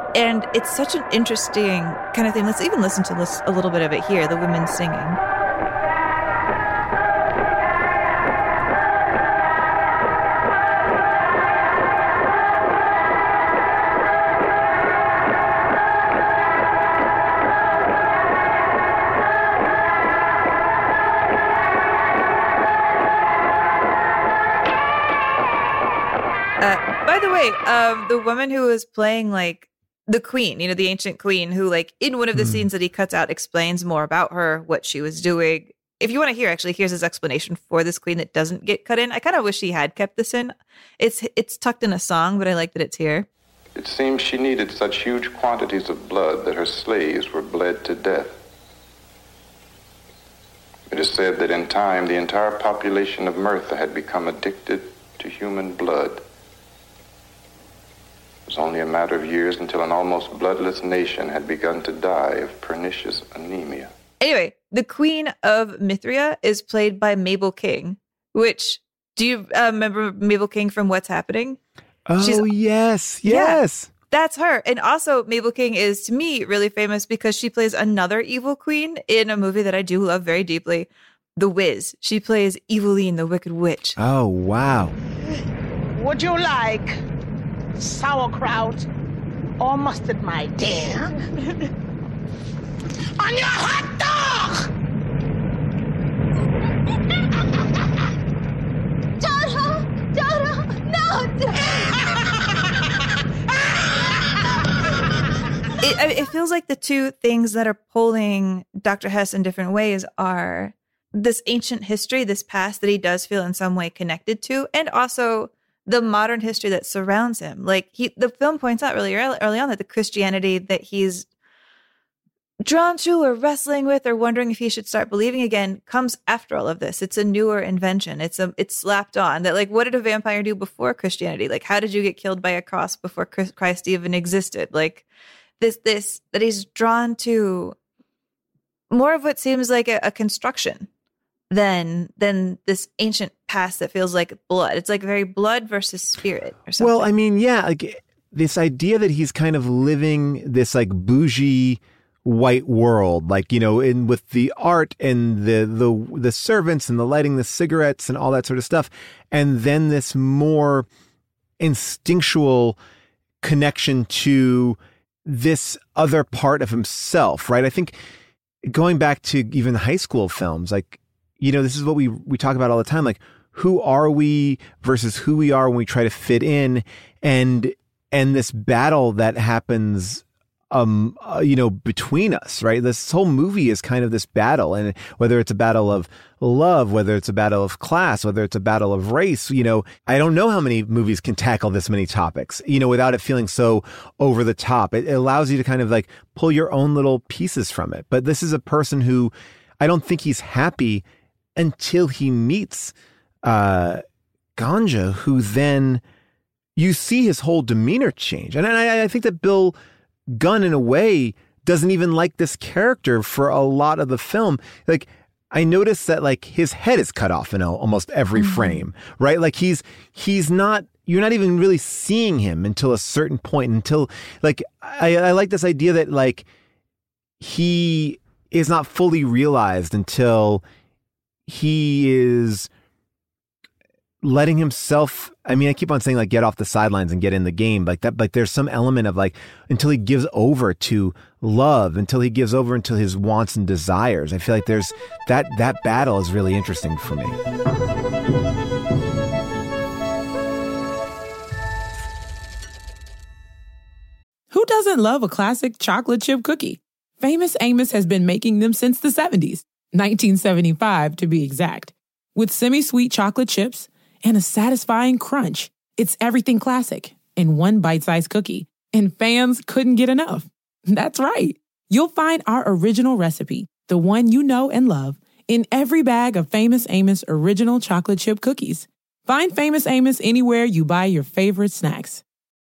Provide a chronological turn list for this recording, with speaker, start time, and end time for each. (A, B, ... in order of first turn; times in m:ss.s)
0:00.2-0:05.2 A
0:26.6-0:43.3 A
0:32.4-0:32.7 B
0:43.8-0:48.4 C
0:50.9-0:56.2 C
0:58.5-1:03.9 C
1:04.2-1:11.6 A
1:12.1-1:13.9 B
1:12.2-1:12.5 A
1:13.3-1:24.0 A
1:24.0-1:25.0 B
1:25.9-1:27.0 D
1:27.8-1:28.9 D
1:29.6-1:31.3 D
1:33.2-1:34.7 D
1:39.2-1:42.0 D
1:45.8-2:01.3 A
2:02.6-2:15.0 A
2:15.6-2:17.8 A
2:18.9-2:20.9 A
2:21.5-2:27.1 A
2:26.8-2:40.9 B
2:41.6-2:42.8 B
2:43.4-2:48.0 B
2:48.6-3:21.0 B
3:21.6-3:24.0 B
3:24.6-3:26.0 B
3:26.8-3:29.8 B
3:30.3-3:46.5 B
3:38.4-3:38.8 A
3:47.4-3:50.6 B
3:51.5-3:52.7 B
3:54.2-4:07.4 B
4:14.5-4:42.2 E